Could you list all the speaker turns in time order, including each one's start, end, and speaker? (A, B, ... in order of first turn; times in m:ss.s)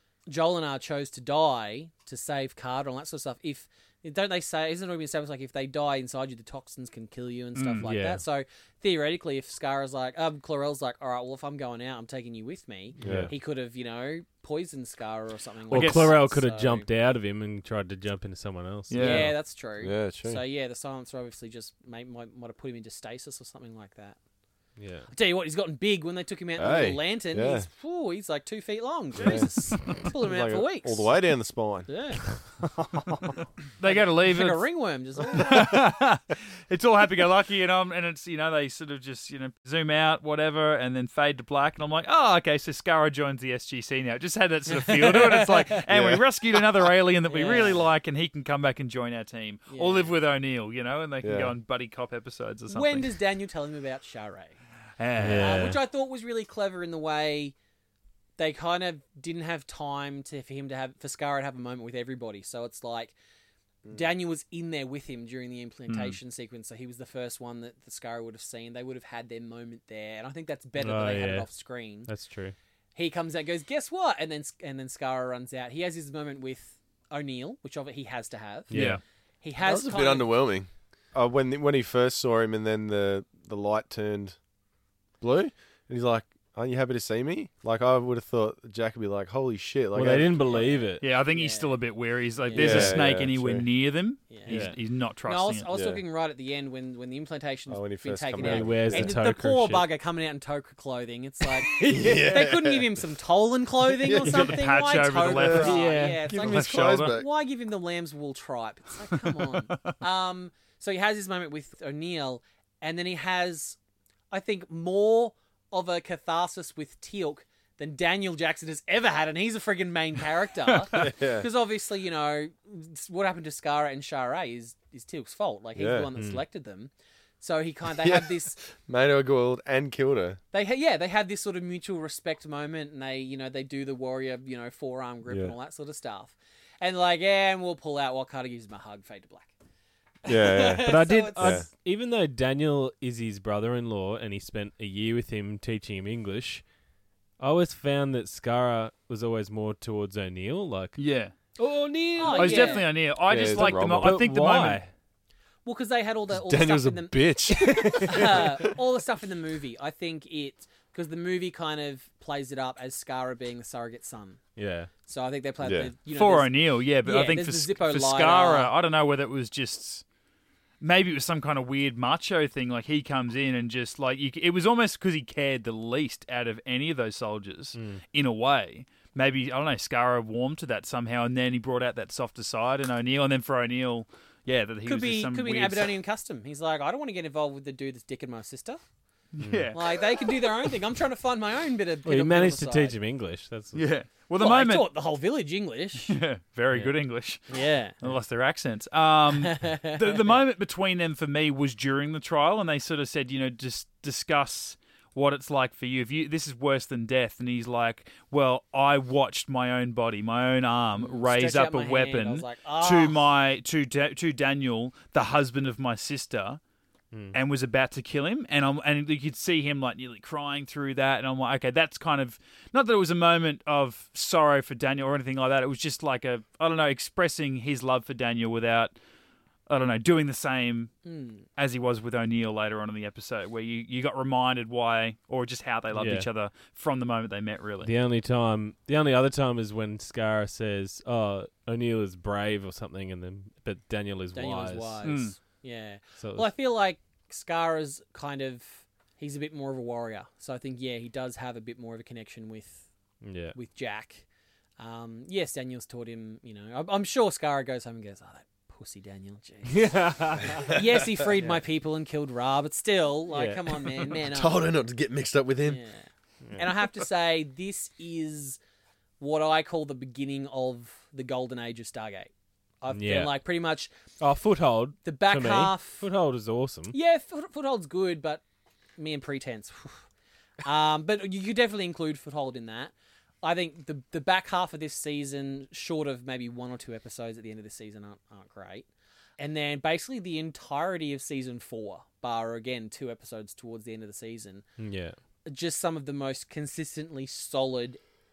0:00.3-0:16.8 A
0:07.5-0:07.9 B
0:07.8-0:08.2 C
0:13.0-0:13.3 C
0:13.0-0:13.3 D
0:15.7-0:19.3 C
0:15.7-0:16.2 B
0:18.9-0:19.3 B
0:18.9-0:24.2 A
0:19.8-0:20.4 D
0:24.8-0:25.1 C
0:25.1-0:31.1 A
0:26.6-0:27.7 D
0:29.2-0:31.9 D
0:31.9-0:32.2 A
0:33.8-0:34.7 B
0:33.8-0:35.8 A
0:35.3-0:53.1 B
0:44.7-0:45.8 A
0:45.9-0:46.2 D
0:47.3-0:47.9 A
0:49.7-0:50.2 A
0:51.2-0:51.5 D
0:52.7-0:54.6 A
0:55.0-0:55.7 B
0:55.2-0:55.8 C
0:55.3-0:57.5 A
0:58.4-1:03.1 A
1:03.9-1:12.1 A
1:05.9-1:06.2 B
1:10.8-1:12.5 C
1:12.9-1:20.3 A
1:18.7-1:19.0 C
1:18.7-1:19.0 B
1:19.6-1:24.4 D
1:25.2-1:30.4 D
1:29.9-1:31.0 C
1:30.4-1:31.8 A
1:31.0-1:35.6 B
1:32.4-1:33.0 A
1:32.5-1:33.6 D
1:34.3-1:34.7 A
1:34.4-1:34.8 C
1:35.2-1:53.8 A
1:35.7-1:36.0 D
1:37.7-1:39.2 D
1:38.4-1:39.8 C
1:41.7-1:42.4 C
1:41.8-1:42.9 D
1:43.9-1:44.5 D
1:44.2-1:47.1 B
1:44.2-1:44.5 C
1:45.2-1:47.3 D
1:45.6-1:46.2 C
1:54.3-2:08.6 A
2:00.9-2:01.5 D
2:05.8-2:06.1 D
2:06.2-2:06.4 C
2:07.9-2:10.4 D
2:10.5-2:19.5 A
2:15.3-2:15.5 D
2:20.2-2:21.7 A
2:20.2-2:21.7 D
2:20.8-2:26.6 C
2:27.4-2:31.0 C
2:31.0-2:31.4 B
2:31.6-2:32.8 C
2:32.2-2:32.9 A
2:32.2-2:34.8 B
2:33.2-2:34.2 D
2:33.5-2:34.9 C
2:35.6-2:44.4 A
2:36.3-2:38.8 D
2:37.9-2:38.3 C
2:44.6-2:44.9 C
2:45.0-2:48.7 A
2:45.6-2:45.9 D
2:46.1-2:50.0 B
2:50.8-3:05.9 B
2:57.7-2:58.0 C
3:04.8-3:08.8 A
3:09.3-3:10.0 B
3:09.4-3:09.7 C
3:09.7-3:12.9 A
3:12.0-3:13.8 C
3:13.7-3:14.9 B
3:14.4-3:16.2 A
3:16.1-3:36.6 B
3:17.5-3:18.0 A
3:19.3-3:20.4 A
3:31.0-3:33.3 A
3:37.1-3:37.4 C
3:37.3-3:48.9 B
3:49.7-3:50.9 B
3:51.0-3:51.4 A
3:51.6-3:57.9 B
3:55.9-3:56.3 C
3:57.8-4:05.0 C
4:04.3-4:12.9 A
4:05.0-4:05.4 B
4:06.2-4:06.5 C
4:13.2-4:13.6 C
4:13.5-4:14.2 A
4:14.8-4:24.6 A
4:19.7-4:20.8 C
4:23.3-4:24.1 C
4:24.1-4:25.8 D
4:25.6-4:28.6 A
4:26.4-4:26.7 C
4:29.2-4:32.3 A
4:32.8-4:33.9 A
4:32.9-4:33.4 C
4:34.2-4:36.9 C
4:35.0-4:36.0 A
4:36.9-4:38.4 A
4:39.0-4:40.0 A
4:40.6-4:48.9 A
4:49.4-4:54.6 A
4:54.8-4:55.2 C
4:55.4-4:58.0 A